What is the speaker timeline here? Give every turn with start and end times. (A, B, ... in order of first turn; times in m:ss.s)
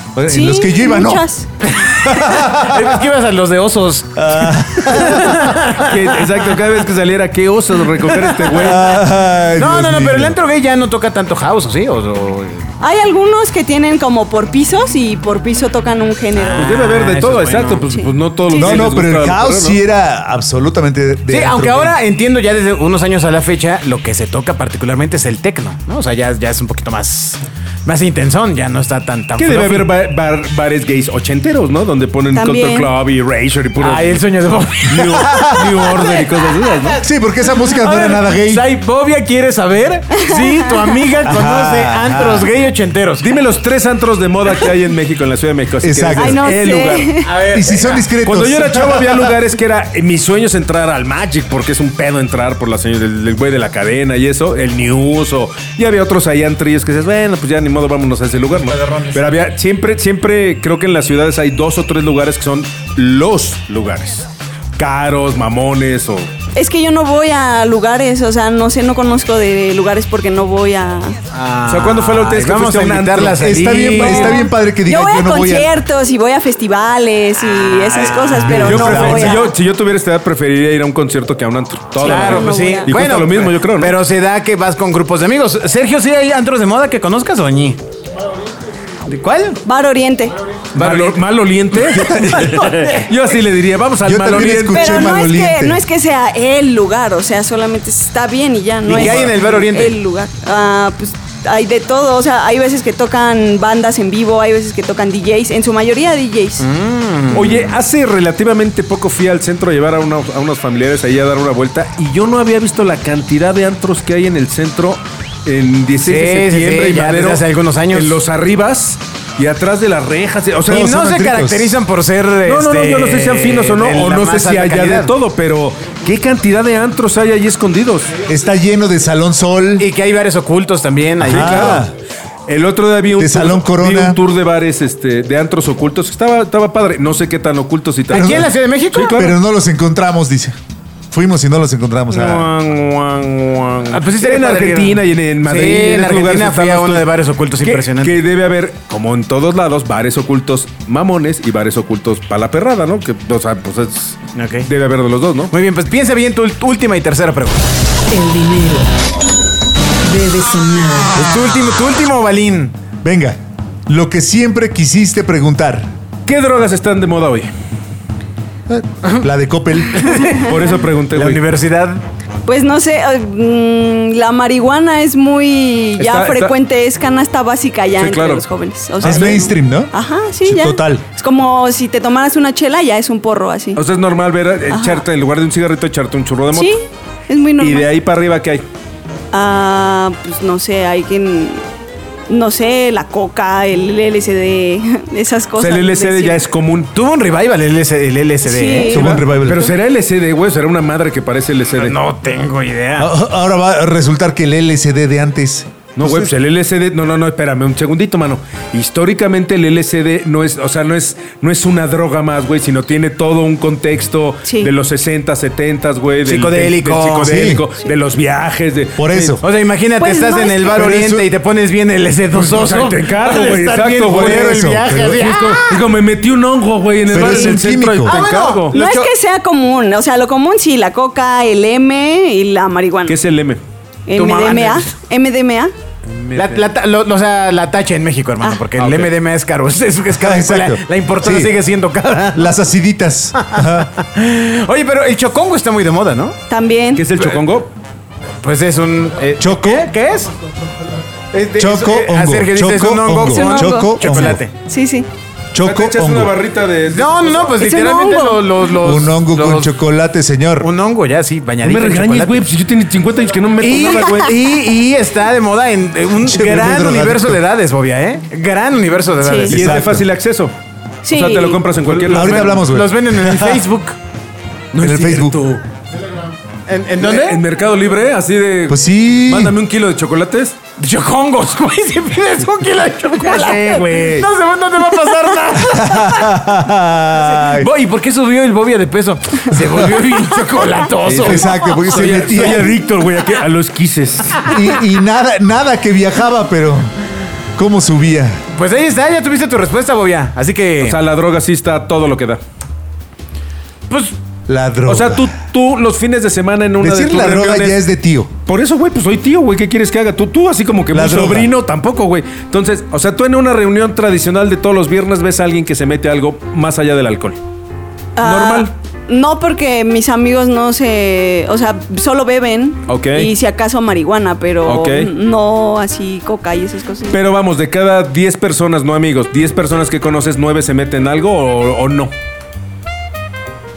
0:00.2-0:01.3 A
0:00.4-0:01.5 B
0:01.7-0:06.3 C
0:02.0-0:03.0 A
0:04.2-0:05.5 A
0:05.7-0:08.8 D
0:08.1-0:08.8 C
0:08.6-0:10.4 A
0:09.6-0:12.7 C
0:12.8-0:16.7 B
0:16.4-0:18.0 C
0:16.5-0:19.8 D
0:17.9-0:18.8 B
0:18.5-0:22.0 A
0:21.3-0:29.9 C
0:29.4-0:34.3 D
0:32.3-0:32.9 B
0:33.8-0:37.0 C
0:34.9-0:37.0 D
0:35.2-0:35.9 A
0:37.0-0:38.7 A
0:37.5-0:43.3 C
0:40.1-0:41.1 B
0:41.2-0:42.5 A
0:43.2-0:47.2 D
0:45.8-0:46.5 A
0:46.2-0:47.3 B
0:47.2-0:48.1 C
0:47.5-0:49.3 A
0:48.2-1:06.3 D
0:58.5-0:59.2 C
1:06.6-1:11.2 B
1:11.3-1:14.3 C
1:11.6-1:14.1 D
1:13.4-1:15.7 A
1:13.9-1:19.5 B
1:17.5-1:19.5 C
1:18.3-1:19.4 A
1:18.5-1:24.0 D
1:22.0-1:27.8 C
1:22.2-1:23.0 B
1:29.1-1:29.6 C
1:29.6-1:30.4 B
1:30.7-1:35.2 D
1:30.8-1:31.2 C
1:31.9-1:32.7 A
1:32.0-1:33.0 C
1:34.0-1:35.8 A
1:34.7-1:46.6 B
1:38.9-1:40.0 C
1:39.0-1:39.4 D
1:46.6-1:47.7 C
1:47.3-2:00.9 D
1:56.0-1:58.2 C
2:00.7-2:01.8 A
2:00.7-2:05.1 C
2:02.4-2:08.2 D
2:08.3-2:09.9 A
2:09.8-2:11.8 C
2:11.2-2:11.9 D
2:11.2-2:11.9 A
2:12.5-2:19.4 D
2:13.2-2:14.2 A
2:18.1-2:19.2 C
2:18.1-2:20.6 A
2:21.1-2:22.5 A
2:22.2-2:35.5 D
2:23.9-2:28.2 C
2:34.4-2:34.7 C
2:35.5-2:37.6 C
2:38.1-2:38.9 E
2:40.0-2:41.2 E
2:41.2-2:42.7 C
2:43.0-2:45.9 A
2:46.3-2:47.5 D
2:48.7-2:50.2 A
2:49.9-2:50.4 C
2:50.1-2:50.7 B
2:50.3-2:51.4 D
2:51.1-2:52.0 C
2:52.4-3:03.8 B
2:56.0-2:56.6 D
2:58.0-2:58.4 D
2:59.0-2:59.4 D
2:59.0-2:59.9 A
3:00.4-3:01.0 A
3:03.8-3:06.8 D
3:04.7-3:05.0 B
3:06.5-3:07.9 B
3:07.6-3:08.6 D
3:09.3-3:11.6 B
3:12.3-3:16.4 B
3:15.6-3:16.9 D
3:17.0-3:19.1 C
3:18.4-3:19.7 B
3:18.9-3:19.7 A
3:18.9-3:22.0 D
3:21.7-3:23.1 C
3:23.0-3:26.3 A
3:26.0-3:39.4 D
3:36.2-3:37.5 C
3:37.2-3:37.6 A
3:39.0-3:39.4 A
3:39.4-3:45.8 C
3:40.0-3:40.9 B
3:40.6-3:41.3 A
3:42.3-3:48.8 D
3:44.1-3:45.3 A
3:47.1-3:48.2 A
3:47.1-3:49.1 C
3:48.7-3:53.1 B
3:53.1-3:53.6 D
3:54.1-3:55.7 B
3:54.1-3:55.0 C
3:56.0-3:56.7 D
3:56.4-4:02.5 C
3:58.7-3:59.2 D
4:00.1-4:01.6 A
4:02.3-4:03.9 A
4:03.4-4:06.4 C
4:06.5-4:07.1 B
4:07.0-4:07.7 D
4:08.4-4:10.3 C
4:09.4-4:09.9 A
4:11.5-4:14.4 A
4:11.5-4:14.6 C
4:13.4-4:15.1 B
4:15.5-4:16.3 A
4:15.6-4:17.6 D
4:16.9-4:19.7 C
4:17.6-4:18.4 B
4:18.8-4:20.7 A
4:20.6-4:22.5 C
4:21.6-4:24.4 D
4:23.6-4:29.8 C
4:26.2-4:27.4 A
4:29.2-4:29.5 B
4:29.5-4:30.1 A
4:29.5-4:32.6 D
4:31.0-4:31.6 B
4:31.7-4:34.0 C
4:32.1-4:33.7 A
4:34.7-4:35.6 D
4:34.8-4:35.4 A
4:36.7-4:37.4 C
4:37.0-4:40.6 D
4:38.7-4:39.6 A
4:40.8-4:46.4 C
4:43.1-4:44.3 D
4:45.7-4:47.7 A
4:47.1-4:52.3 C
4:49.6-4:49.9 A
4:51.0-4:54.5 D
4:51.2-4:52.8 A
4:54.4-4:57.0 A
4:57.6-4:58.4 A
4:58.5-5:01.0 C
5:00.8-5:02.4 D
5:03.9-5:04.2 C
5:04.5-5:05.3 A
5:04.9-5:07.8 D
5:06.8-5:08.3 A
5:08.5-5:17.4 D
5:10.9-5:11.5 A
5:18.2-5:27.2 B
5:18.2-5:18.7 D
5:22.9-5:23.3 D
5:24.6-5:25.1 D
5:27.1-5:32.1 D